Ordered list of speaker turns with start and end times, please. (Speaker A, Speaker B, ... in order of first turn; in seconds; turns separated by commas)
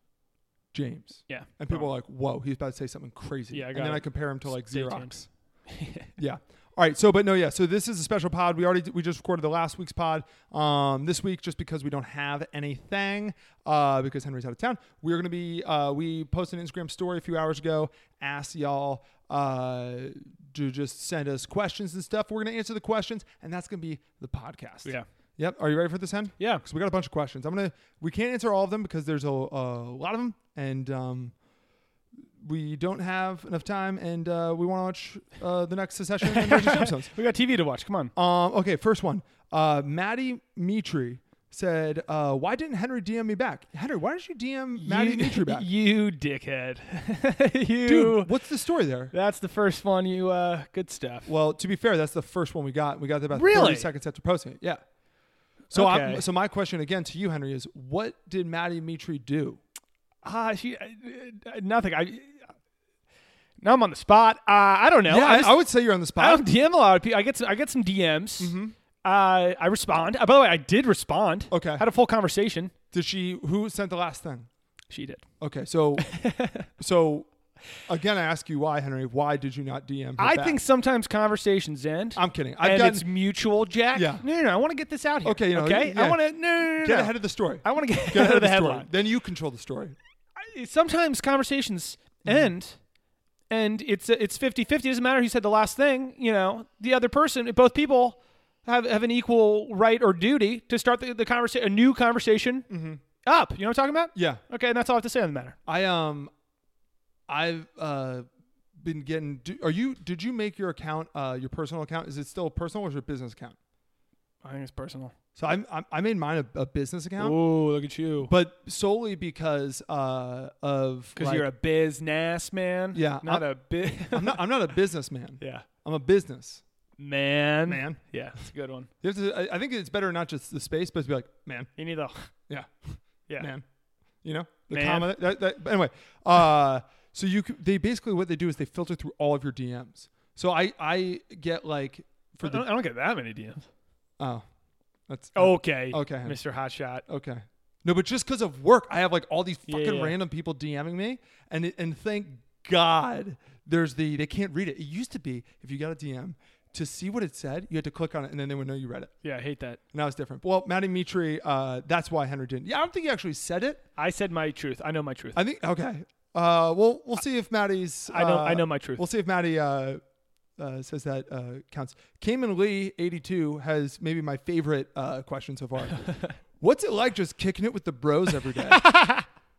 Speaker A: 0.7-5.3, Speaker B: 1.3-1.9, Speaker B: 3.5-6.1, Speaker A: 6.2-31.3, Speaker B: 26.4-26.6, Speaker A: 32.4-37.2, Speaker B: 36.3-38.1, Speaker A: 38.1-45.7, Speaker B: 44.8-48.3, Speaker A: 47.9-49.1, Speaker B: 49.1-51.3, Speaker A: 51.3-54.8, Speaker B: 53.3-53.9, Speaker B: 55.7-56.2, Speaker A: 55.7-59.6, Speaker B: 60.2-62.5, Speaker B: 63.6-65.6, Speaker A: 65.1-66.5, Speaker B: 66.2-72.7, Speaker A: 68.4-68.8, Speaker A: 71.5-71.9, Speaker A: 72.9-74.5, Speaker B: 74.9-75.2, Speaker A: 75.4-77.3, Speaker B: 76.0-76.7, Speaker A: 77.8-80.6, Speaker B: 80.2-88.9, Speaker A: 82.2-83.1, Speaker A: 83.9-84.2, Speaker A: 85.2-90.0, Speaker B: 90.4-92.8, Speaker A: 92.2-92.5, Speaker B: 93.5-102.7, Speaker A: 102.7-103.0, Speaker B: 103.2-105.6, Speaker A: 104.1-104.4, Speaker A: 105.7-106.3, Speaker A: 107.3-113.6, Speaker B: 114.4-115.1, Speaker A: 115.4-117.4, Speaker B: 117.2-118.3, Speaker A: 118.2-121.5, Speaker B: 121.2-124.5, Speaker A: 122.9-126.6, Speaker B: 125.4-125.7, Speaker B: 127.0-128.9, Speaker A: 127.7-128.0, Speaker A: 129.0-131.7, Speaker B: 131.8-132.3, Speaker A: 132.5-133.7, Speaker A: 134.2-142.7, Speaker B: 134.7-135.2, Speaker B: 142.4-143.7, Speaker A: 144.2-144.5, Speaker A: 145.1-146.4, Speaker B: 145.4-147.0, Speaker A: 147.0-159.1, Speaker B: 149.7-150.2, Speaker B: 159.2-159.8, Speaker A: 159.9-163.8, Speaker B: 164.0-165.4, Speaker A: 165.3-170.0, Speaker B: 168.1-169.1, Speaker A: 170.6-179.0, Speaker B: 176.0-176.4, Speaker B: 178.7-179.3